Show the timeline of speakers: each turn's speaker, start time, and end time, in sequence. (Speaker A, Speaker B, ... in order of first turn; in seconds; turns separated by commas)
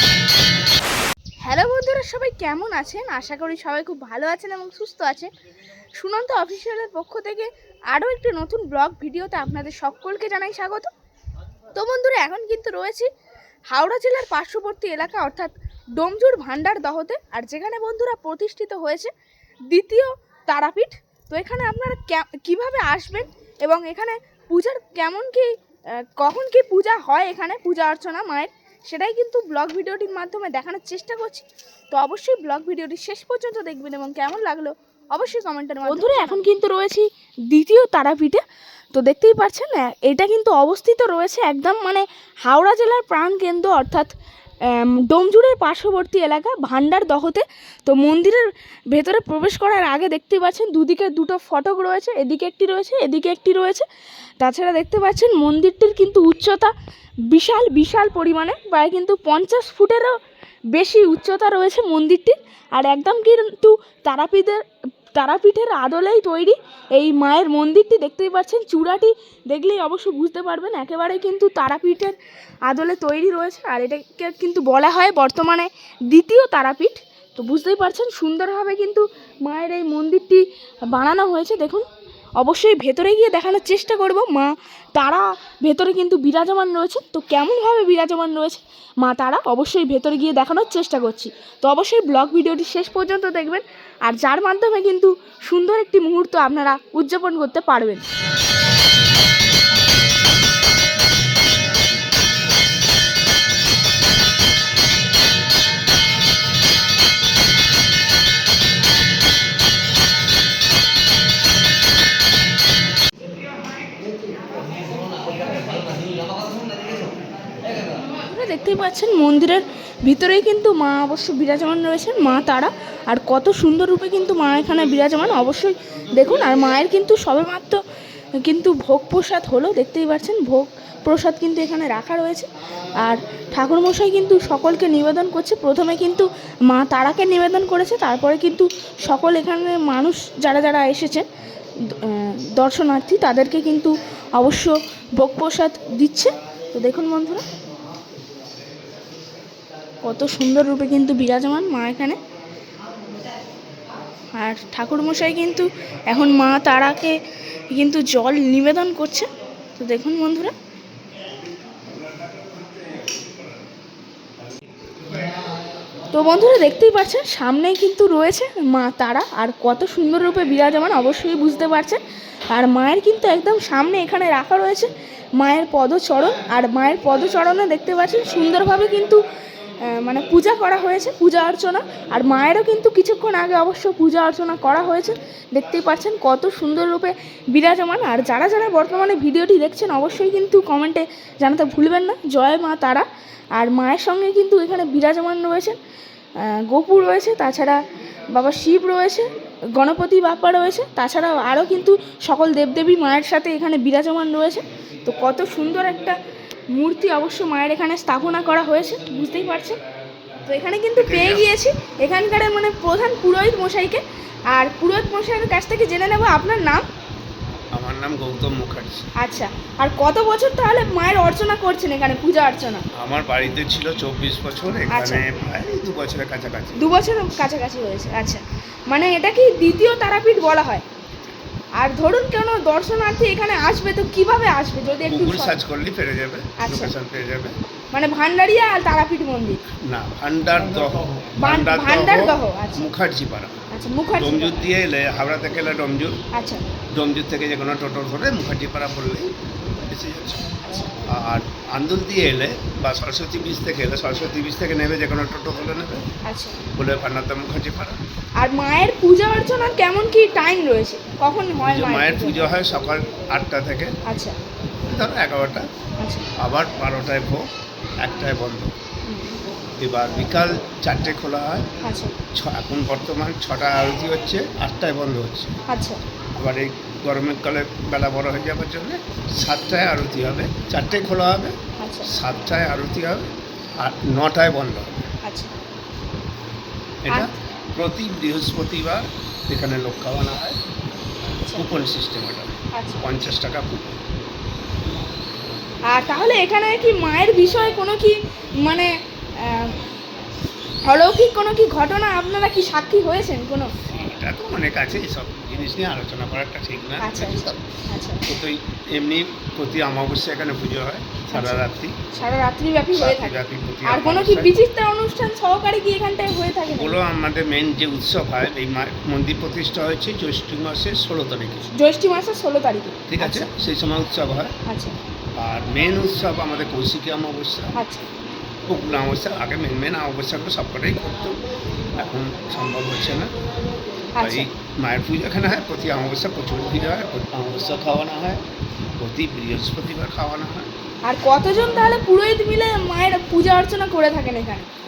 Speaker A: 1.4-5.3, Speaker A: 6.0-10.9, Speaker A: 11.7-13.1, Speaker A: 13.7-19.1, Speaker A: 19.7-25.5, Speaker A: 26.2-38.4, Speaker A: 38.9-44.1, Speaker A: 44.7-53.9, Speaker A: 54.4-56.7, Speaker A: 57.3-60.2, Speaker A: 60.7-64.6, Speaker A: 65.2-72.2, Speaker A: 72.7-81.8, Speaker A: 82.4-98.0, Speaker A: 118.2-127.8, Speaker A: 128.4-132.5, Speaker A: 133.0-141.3, Speaker A: 141.9-147.4, Speaker A: 150.0-152.2, Speaker A: 154.4-157.1, Speaker A: 157.7-160.5, Speaker A: 166.1-172.0, Speaker A: 172.5-179.2, Speaker A: 179.8-195.8, Speaker A: 196.4-197.8, Speaker A: 198.3-206.1, Speaker A: 206.8-209.8, Speaker A: 210.5-216.8, Speaker B: 210.9-211.5, Speaker B: 217.7-219.1, Speaker A: 219.2-222.8, Speaker B: 223.0-226.9, Speaker A: 224.9-225.2, Speaker A: 226.8-230.8, Speaker A: 231.8-235.5, Speaker B: 235.1-237.5, Speaker A: 236.6-236.9, Speaker A: 237.9-239.6, Speaker B: 239.9-243.6, Speaker A: 241.4-242.9, Speaker A: 243.7-244.6, Speaker B: 244.2-246.2, Speaker A: 246.3-246.6, Speaker B: 246.9-256.1, Speaker A: 250.7-250.9, Speaker A: 256.2-256.6, Speaker B: 256.8-258.0, Speaker A: 258.4-262.5, Speaker B: 261.6-263.9, Speaker A: 264.1-264.3, Speaker B: 264.9-265.7, Speaker B: 266.4-267.4, Speaker B: 268.0-268.7, Speaker A: 269.1-269.4, Speaker B: 269.8-271.7, Speaker A: 271.8-272.1, Speaker B: 272.3-275.5, Speaker A: 275.7-276.0, Speaker B: 276.4-283.3, Speaker A: 281.8-282.1, Speaker B: 283.8-285.1, Speaker A: 285.2-285.5, Speaker B: 287.0-290.6, Speaker B: 291.5-294.0, Speaker A: 292.7-293.0, Speaker A: 295.9-299.8, Speaker A: 300.9-303.7, Speaker B: 303.9-307.6, Speaker A: 307.0-308.2, Speaker B: 308.2-311.9, Speaker A: 311.3-316.9, Speaker B: 312.9-314.6, Speaker B: 316.7-321.7, Speaker A: 321.7-323.5, Speaker B: 323.1-324.5, Speaker A: 324.7-324.9, Speaker B: 325.4-327.7, Speaker A: 327.8-328.1, Speaker B: 328.7-331.4, Speaker B: 332.0-333.3, Speaker A: 334.2-334.5, Speaker B: 334.2-338.4, Speaker B: 339.0-340.7, Speaker A: 341.1-344.7